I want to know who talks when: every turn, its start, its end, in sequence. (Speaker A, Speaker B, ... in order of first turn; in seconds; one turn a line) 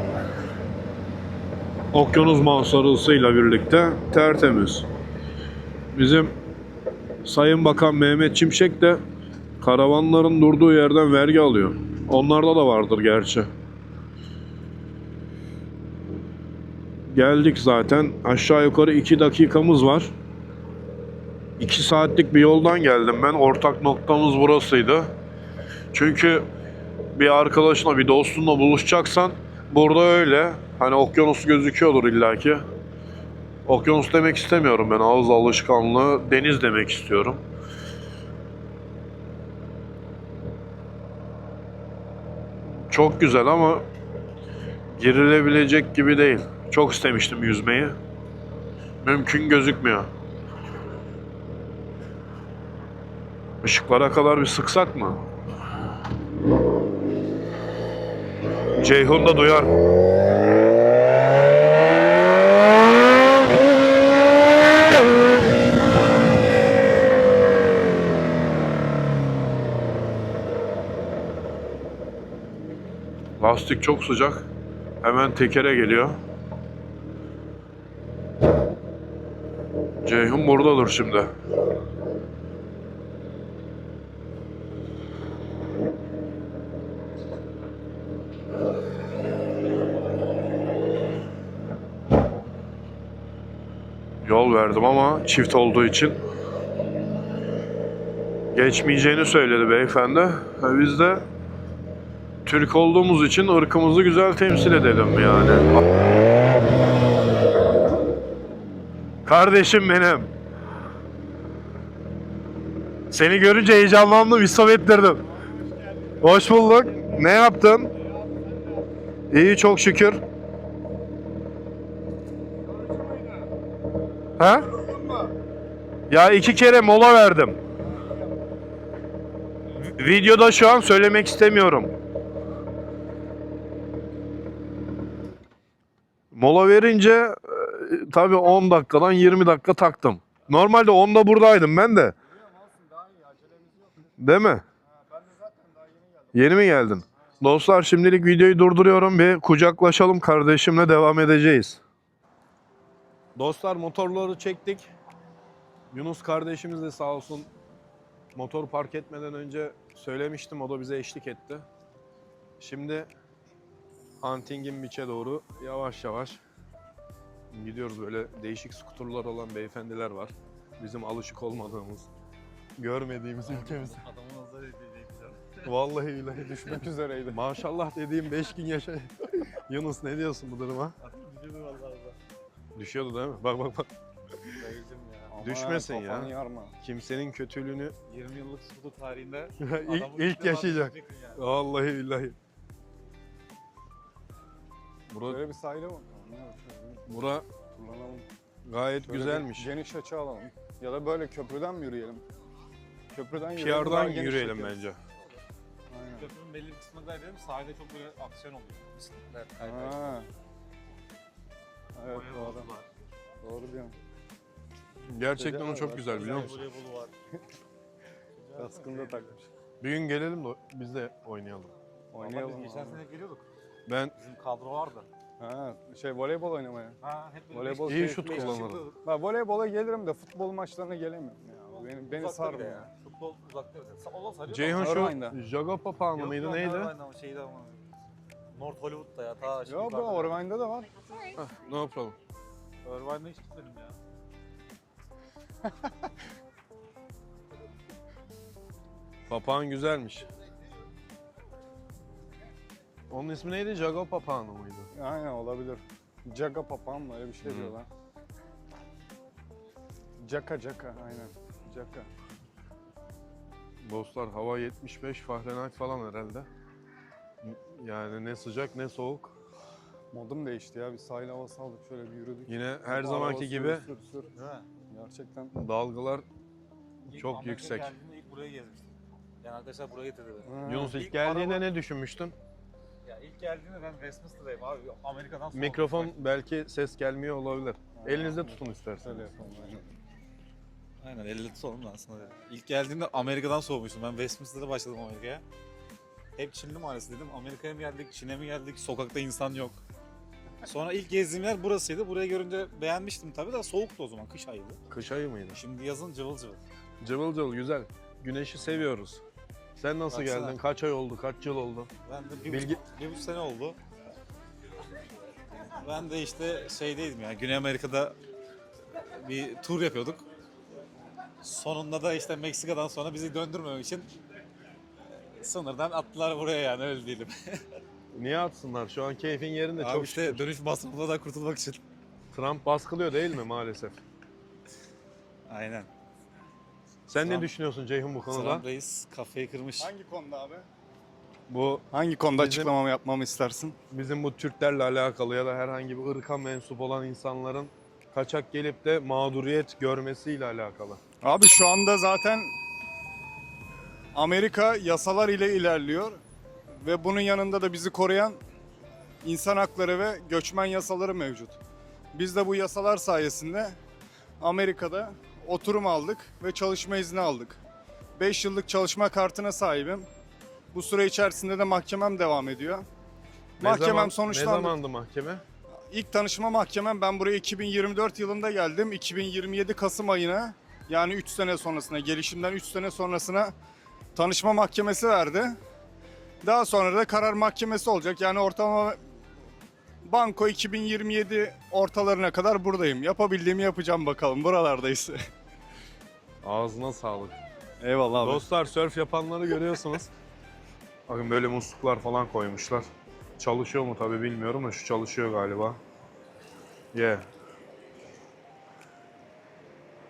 Speaker A: 1.9-4.8
Speaker A: 5.9-6.3
Speaker A: 7.2-9.0
Speaker A: 9.6-13.5
Speaker A: 17.1-20.1
Speaker A: 21.6-25.1
Speaker A: 25.9-26.4
Speaker A: 27.1-32.6
Speaker A: 33.7-37.4
Speaker A: 42.9-43.8
Speaker A: 45.0-48.0
Speaker A: 49.0-50.1
Speaker A: 53.6-55.2
Speaker A: 58.8-59.8
Speaker A: 73.4-74.5
Speaker A: 75.0-76.2
Speaker A: 80.0-81.3
Speaker A: 94.2-96.2
Speaker A: 98.5-101.2
Speaker A: 102.4-105.7
Speaker A: 109.2-110.3
Speaker A: 113.1-115.2
Speaker B: 115.8-116.1
Speaker A: 116.2-117.9
Speaker A: 119.3-120.2
Speaker B: 122.7-123.5
Speaker A: 124.4-124.7
Speaker B: 124.8-125.3
Speaker A: 126.1-127.6
Speaker A: 129.9-131.9
Speaker A: 136.3-142.2
Speaker B: 142.3-144.1
Speaker A: 144.2-144.6
Speaker B: 144.9-146.5
Speaker A: 146.3-151.8
Speaker A: 153.3-154.9
Speaker A: 155.9-157.5
Speaker A: 158.3-161.7
Speaker A: 162.6-163.1
Speaker A: 164.2-166.4
Speaker A: 167.5-172.1
Speaker A: 172.8-174.0
Speaker C: 173.4-175.7
Speaker A: 175.6-181.0
Speaker B: 176.3-177.4
Speaker C: 181.0-182.2
Speaker A: 182.8-183.9
Speaker C: 184.5-185.3
Speaker B: 185.3-186.8
Speaker A: 185.4-187.9
Speaker C: 188.1-191.4
Speaker A: 189.6-192.3
Speaker A: 195.1-195.4
Speaker B: 195.2-197.0
Speaker A: 197.1-197.5
Speaker B: 197.7-198.2
Speaker A: 198.7-199.7
Speaker B: 199.0-202.2
Speaker B: 203.1-204.8
Speaker A: 203.6-205.0
Speaker B: 205.9-206.3
Speaker C: 206.2-210.2
Speaker B: 209.6-210.3
Speaker B: 212.0-212.7
Speaker C: 212.1-212.8
Speaker B: 213.4-213.9
Speaker A: 215.0-216.6
Speaker B: 215.3-216.1
Speaker C: 215.9-217.1
Speaker C: 218.4-219.3
Speaker B: 218.6-219.4
Speaker A: 219.8-221.7
Speaker B: 222.1-223.0
Speaker C: 222.2-223.4
Speaker A: 223.9-224.1
Speaker C: 224.2-225.1
Speaker B: 225.4-227.0
Speaker C: 227.0-229.0
Speaker B: 227.5-232.9
Speaker A: 227.8-228.8
Speaker C: 231.8-235.0
Speaker A: 234.5-236.9
Speaker B: 234.8-235.4
Speaker C: 236.1-237.8
Speaker C: 238.5-240.4
Speaker B: 239.7-240.9
Speaker A: 241.3-242.2
Speaker C: 242.8-244.0
Speaker A: 249.3-250.3
Speaker A: 253.1-254.9
Speaker B: 254.9-257.9
Speaker A: 257.4-257.7
Speaker B: 260.2-262.1
Speaker A: 263.8-266.5
Speaker A: 267.4-269.3
Speaker B: 270.1-274.3
Speaker A: 272.5-273.9
Speaker C: 274.4-274.6
Speaker B: 274.9-275.6
Speaker A: 275.5-276.2
Speaker C: 277.0-281.6
Speaker A: 277.1-277.9
Speaker B: 280.4-281.0
Speaker A: 280.6-282.4
Speaker C: 283.0-286.1
Speaker A: 285.5-289.2
Speaker B: 287.9-289.9
Speaker C: 291.0-295.4
Speaker C: 296.4-299.8
Speaker C: 300.6-304.8
Speaker A: 304.9-305.6
Speaker C: 305.5-306.6
Speaker A: 307.0-309.2
Speaker A: 309.8-311.9
Speaker C: 310.1-310.6
Speaker C: 312.0-313.8
Speaker A: 312.5-312.8
Speaker C: 315.8-318.1
Speaker C: 319.0-320.2
Speaker C: 321.4-324.1
Speaker C: 325.4-327.6
Speaker A: 328.1-330.4
Speaker C: 329.8-331.8
Speaker A: 332.3-334.0
Speaker C: 335.5-335.9
Speaker A: 337.1-338.6
Speaker C: 337.2-337.5
Speaker C: 338.3-339.9
Speaker B: 339.8-340.6
Speaker A: 341.5-342.7
Speaker B: 341.9-343.8
Speaker A: 343.9-351.0
Speaker B: 351.2-352.5
Speaker B: 354.1-356.2
Speaker B: 356.8-358.4
Speaker B: 359.2-361.6
Speaker B: 362.1-363.8
Speaker B: 364.4-367.6
Speaker B: 368.2-370.1
Speaker B: 370.7-372.9
Speaker B: 373.6-374.8
Speaker A: 373.6-375.4
Speaker B: 375.9-383.5
Speaker B: 384.2-385.6
Speaker B: 386.4-389.0
Speaker B: 390.0-395.2
Speaker A: 396.4-397.4
Speaker B: 397.8-398.5
Speaker A: 398.2-400.1
Speaker A: 401.1-402.9
Speaker A: 403.4-405.8
Speaker A: 406.9-407.2